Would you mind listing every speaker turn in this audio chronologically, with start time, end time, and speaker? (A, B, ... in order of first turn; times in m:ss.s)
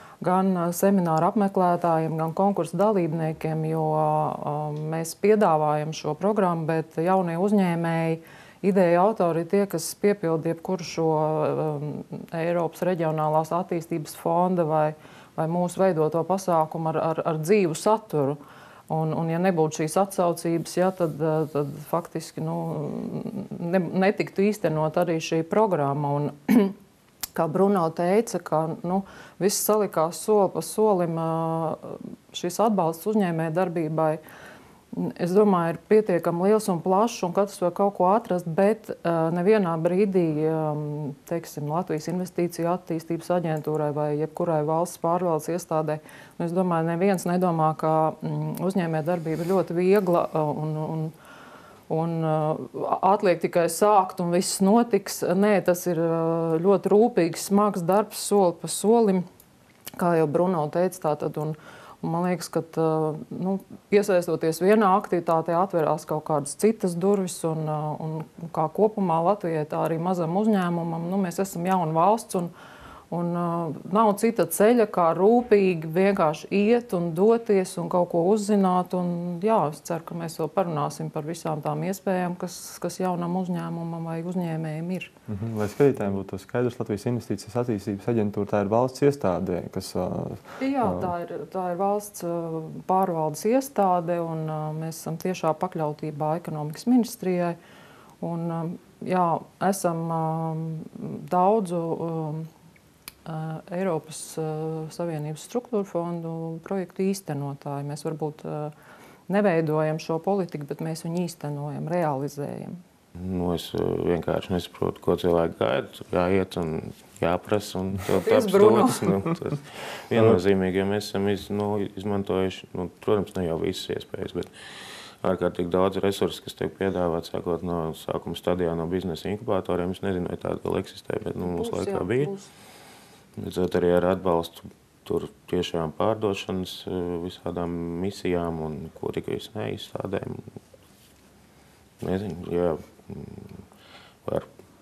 0:00.2-0:18.4 A
0:18.9-0:26.8 A
0:27.4-0:34.2 A
0:34.9-0:51.1 A
0:51.9-0:59.3 A
1:00.0-1:12.5 A
1:13.1-1:25.1 A
1:25.3-1:31.1 B
1:30.6-1:37.6 A
1:38.2-1:42.5 A
1:43.3-1:48.7 A
1:49.3-1:52.8 A
1:53.2-2:04.5 C
1:58.2-1:59.0 A
2:00.1-2:00.4 B
2:05.2-2:12.3 C
2:11.4-2:12.5 A
2:13.4-2:20.5 C
2:22.0-2:23.6 C